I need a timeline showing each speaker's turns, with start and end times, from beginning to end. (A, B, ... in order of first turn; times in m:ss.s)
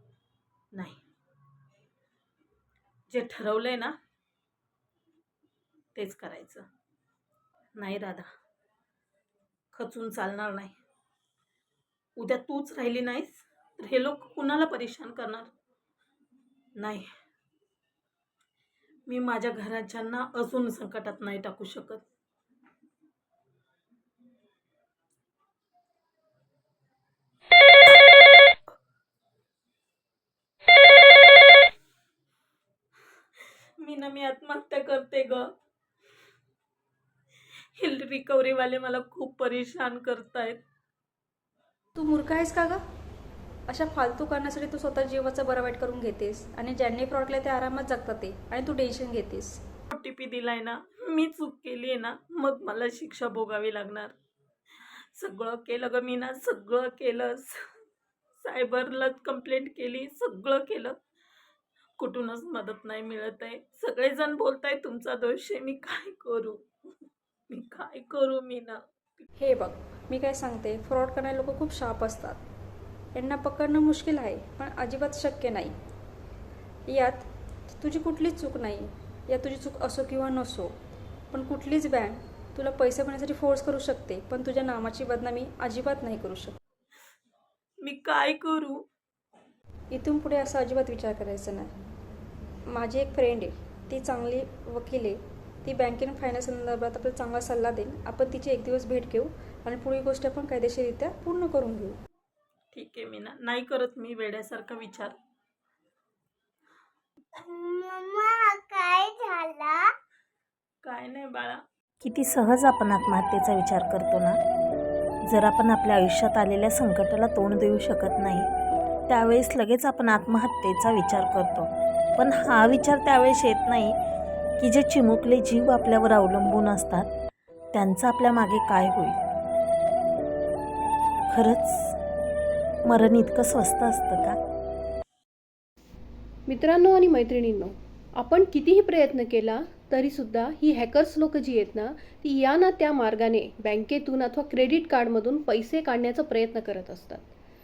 0:03.1-0:03.9 A
0:06.0-0:06.6 A
0:07.8-0:08.3 A
0:09.7-0:10.7 A
0:12.2-0:15.5 A
0:16.8-0:17.0 A
0:19.1-0:22.0 A
0:33.8-0:35.5 A
0:37.8-0:40.6 A
0:42.0-0:42.8 B
0:43.7-0:49.6 B
0:49.9-0:54.1 A
0:55.2-0:57.5 A
0:58.4-1:00.9 A
1:02.0-1:06.6 A
1:07.5-1:08.8 A
1:09.4-1:12.4 B
1:13.1-1:15.7 B
1:16.9-1:17.2 B
1:17.8-1:20.7 B
1:21.3-1:26.5 B
1:27.8-1:28.8 A
1:29.9-1:31.7 B
1:32.7-1:42.0 B
1:42.7-1:45.1 A
1:47.4-1:49.8 C
1:50.8-1:51.6 A
1:52.0-1:54.4 D
1:55.3-1:58.5 D
1:59.1-2:04.0 D
2:04.6-2:07.1 D
2:07.7-2:09.2 D
2:11.3-2:11.9 D
2:12.8-2:14.4 D
2:16.4-2:27.2 E